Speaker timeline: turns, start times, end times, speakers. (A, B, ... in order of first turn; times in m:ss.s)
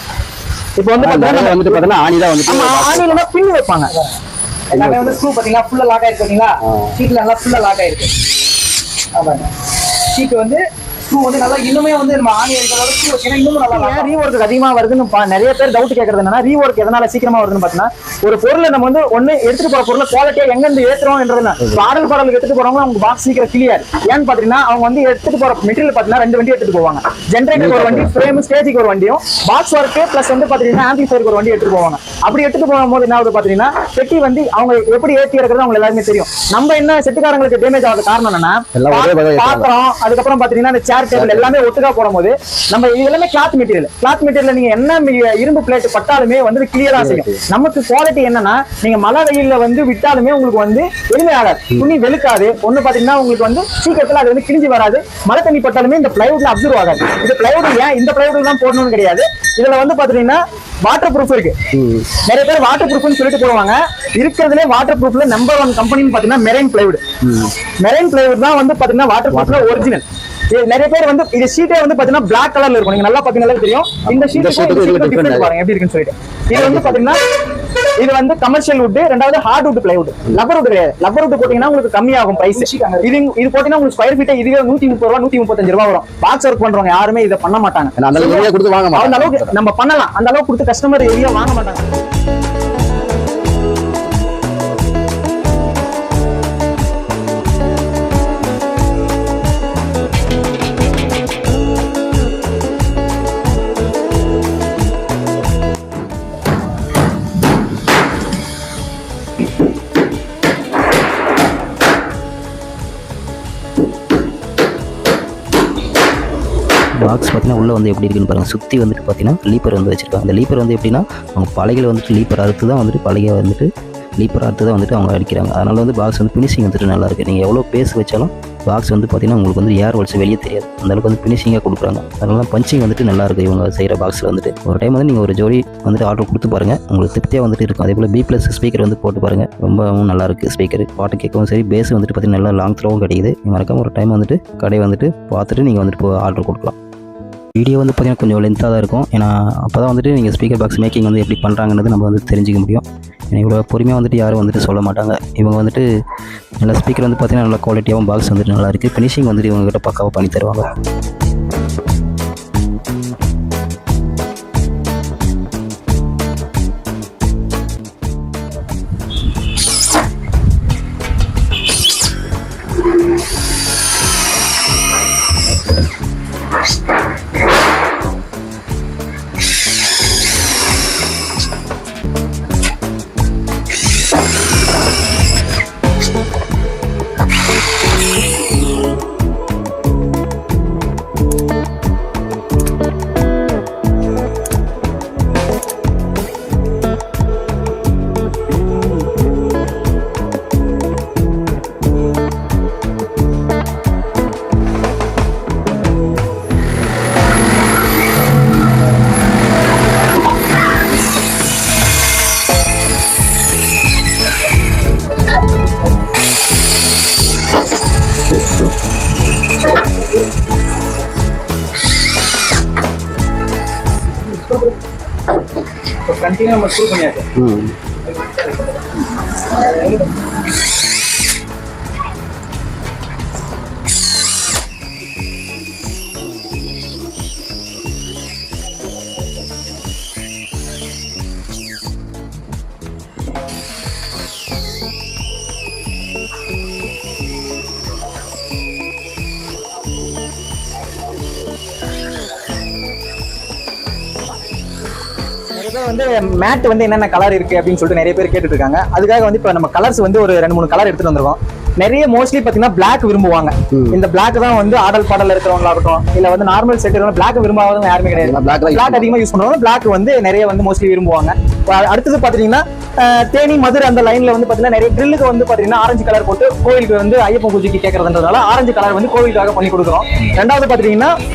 0:00.8-0:01.9 A
0:01.0-0:03.2 B
0:02.4-0:03.9 A
0:03.9-0:04.2 C
0:04.7-0:08.1 C
0:04.7-0:05.2 B
0:09.1-0:09.5 C
0:10.1-0:14.2 C
0:13.7-1:01.6 A
0:27.5-0:28.1 B
0:38.7-0:39.7 B
0:41.1-0:41.5 B
0:46.9-0:47.4 B
1:01.7-1:02.1 B
1:02.2-1:07.0 A
1:07.2-1:07.5 B
1:07.8-1:17.2 A
1:09.3-1:09.9 B
1:14.1-1:15.5 B
1:16.5-1:17.0 B
1:18.0-1:31.8 A
1:22.4-1:23.1 C
1:28.0-1:29.5 B
1:57.0-2:26.7 D
2:27.6-2:35.8 D
2:36.6-2:40.7 D
3:44.2-3:44.7 C
3:46.0-3:47.3 C
3:47.4-3:47.7 B
3:48.1-3:48.8 C
3:49.4-3:50.1 C
4:15.5-4:41.1 A
4:23.7-4:24.0 B
4:28.2-4:29.1 B